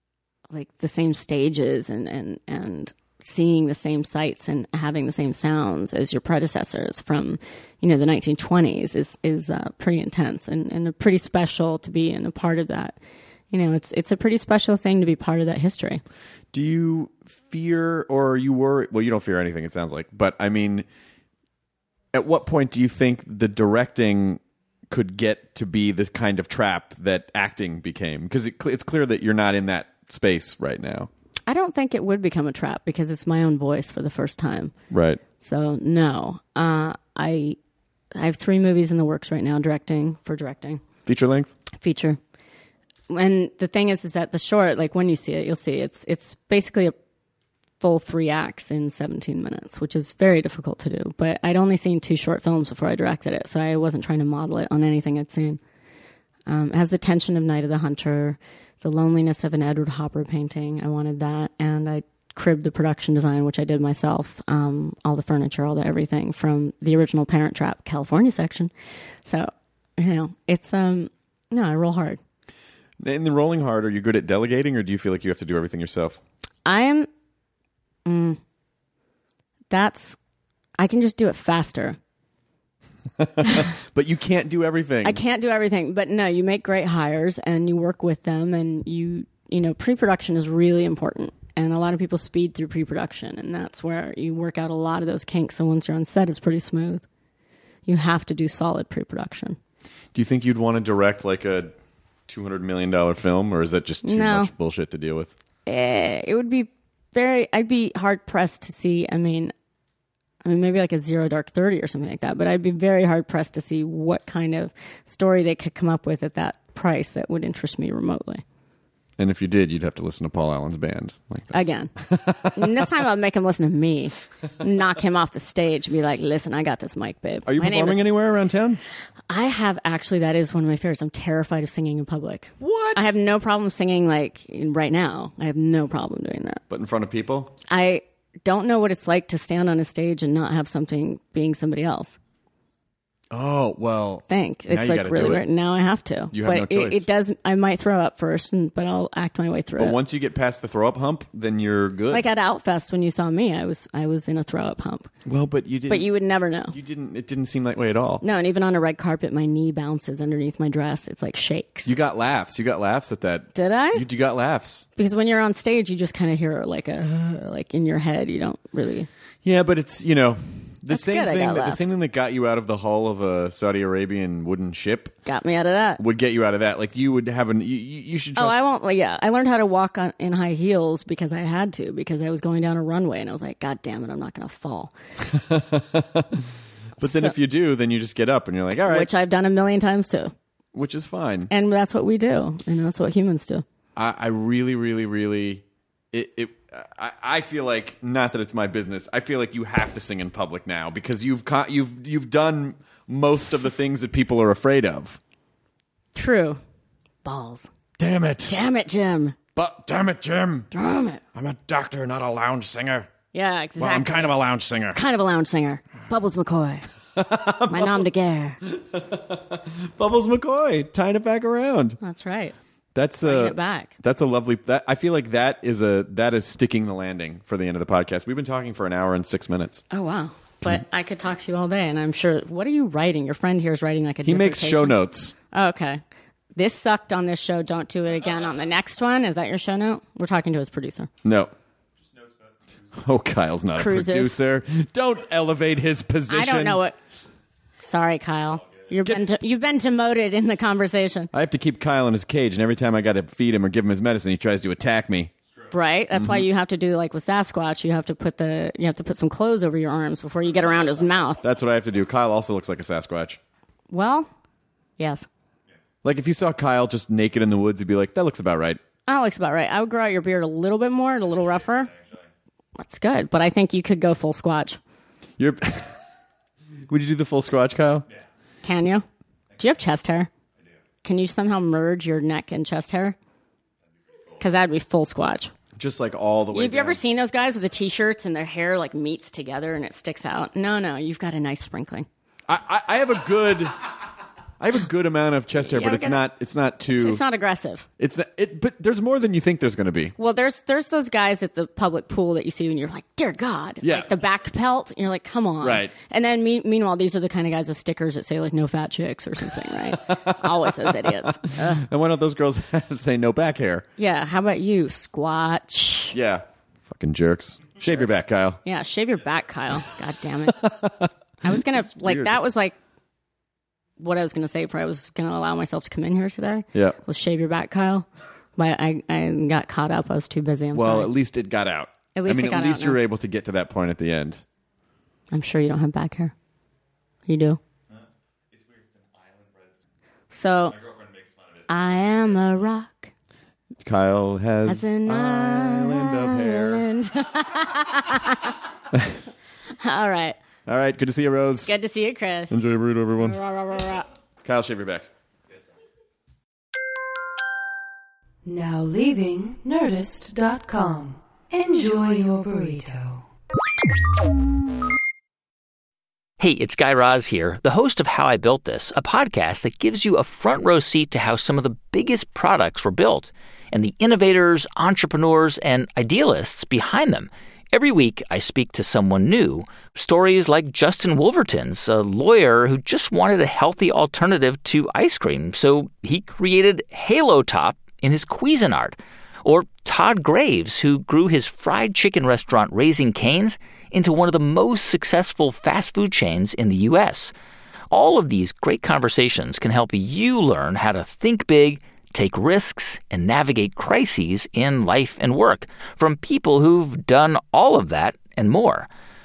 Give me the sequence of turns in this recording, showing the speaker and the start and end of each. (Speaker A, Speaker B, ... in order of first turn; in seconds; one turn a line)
Speaker A: 0.5-13.0
Speaker A: 13.5-16.0
Speaker B: 16.5-20.9
Speaker B: 22.1-31.1
Speaker A: 31.5-34.7
Speaker B: 34.9-35.2
Speaker A: 35.4-37.6
Speaker A: 38.1-40.8
Speaker B: 41.1-41.5
Speaker A: 41.8-42.2
Speaker A: 43.1-47.0
Speaker A: 47.8-55.6
Speaker A: 56.5-68.7
Speaker A: 69.2-72.2
Speaker B: 73.0-76.2
Speaker A: 76.7-77.1
Speaker A: 78.1-78.4
Speaker A: 79.7-80.2
Speaker A: 80.8-82.0
Speaker B: 83.2-85.2
Speaker A: 85.0-97.1
Speaker A: 97.9-99.6
Speaker B: 100.1-101.8
Speaker B: 102.3-105.3
Speaker A: 104.0-104.5
Speaker A: 105.7-109.5
Speaker A: 110.4-118.4
Speaker B: 119.2-122.9
Speaker A: 121.5-128.1
Speaker B: 127.5-128.8
Speaker A: 129.3-136.6
Speaker B: 132.6-133.2
Speaker B: 136.7-137.6
Speaker A: 137.7-142.2
Speaker B: 143.3-145.4
Speaker A: 144.3-150.0
Speaker B: 146.3-147.1
Speaker B: 149.8-152.3
Speaker A: 152.1-155.1
Speaker B: 155.2-156.1
Speaker A: 155.9-156.8
Speaker B: 156.7-158.2
Speaker A: 158.2-161.9
Speaker B: 161.8-164.9
Speaker A: 163.5-164.1
Speaker A: 165.0-169.1
Speaker B: 169.4-175.2
Speaker A: 170.9-171.9
Speaker A: 175.3-176.0
Speaker B: 176.0-178.6
Speaker A: 178.4-184.9
Speaker B: 185.2-186.5
Speaker A: 187.0-187.3
Speaker B: 187.0-189.1
Speaker A: 188.9-190.3
Speaker B: 190.7-191.5
Speaker A: 191.5-193.7
Speaker B: 194.0-205.2
Speaker A: 206.2-206.6
Speaker A: 207.2-207.7
Speaker B: 208.0-208.7
Speaker A: 208.5-209.4
Speaker B: 209.6-210.7
Speaker A: 210.7-211.2
Speaker B: 211.3-213.1
Speaker A: 213.3-214.4
Speaker B: 213.8-215.0
Speaker A: 214.9-216.9
Speaker B: 217.2-218.1
Speaker A: 217.5-218.6
Speaker B: 218.6-222.0
Speaker A: 222.0-222.6
Speaker B: 222.9-229.8
Speaker A: 223.2-223.9
Speaker A: 229.9-236.0
Speaker B: 234.2-235.3
Speaker A: 236.6-241.1
Speaker B: 241.2-241.5
Speaker B: 242.9-246.8
Speaker A: 243.8-244.4
Speaker A: 246.3-247.0
Speaker A: 247.8-251.3
Speaker B: 251.3-255.3
Speaker A: 255.7-261.4
Speaker B: 256.1-256.5
Speaker B: 261.4-263.4
Speaker A: 263.9-264.3
Speaker A: 265.0-265.3
Speaker B: 266.0-268.8
Speaker A: 269.1-271.9
Speaker A: 272.8-274.8
Speaker B: 275.4-276.0
Speaker B: 276.9-278.1
Speaker A: 278.6-279.0
Speaker A: 279.6-280.3
Speaker A: 281.0-283.2
Speaker A: 284.4-285.5
Speaker B: 285.8-287.0
Speaker A: 286.5-292.1
Speaker B: 292.5-293.9
Speaker B: 294.6-297.2
Speaker A: 295.6-296.3
Speaker A: 296.9-297.9
Speaker B: 298.0-300.1
Speaker A: 300.2-311.9
Speaker B: 303.8-304.1
Speaker B: 305.6-305.9
Speaker B: 309.9-313.9
Speaker A: 314.0-316.2
Speaker B: 316.1-318.6
Speaker A: 318.6-320.7
Speaker B: 320.6-321.1
Speaker A: 321.4-322.8
Speaker B: 321.9-322.4
Speaker A: 324.0-331.1
Speaker B: 330.7-334.4
Speaker A: 332.1-333.0
Speaker A: 335.3-336.3
Speaker A: 337.3-337.6
Speaker A: 340.3-340.8
Speaker A: 341.7-343.1
Speaker B: 343.8-346.9
Speaker A: 344.6-348.6
Speaker A: 349.8-350.4
Speaker B: 350.7-351.8
Speaker A: 351.7-352.6
Speaker B: 352.5-353.4
Speaker A: 353.2-354.1
Speaker B: 354.4-355.1
Speaker C: 358.4-363.2
Speaker D: 366.4-397.3
Speaker D: 397.9-408.9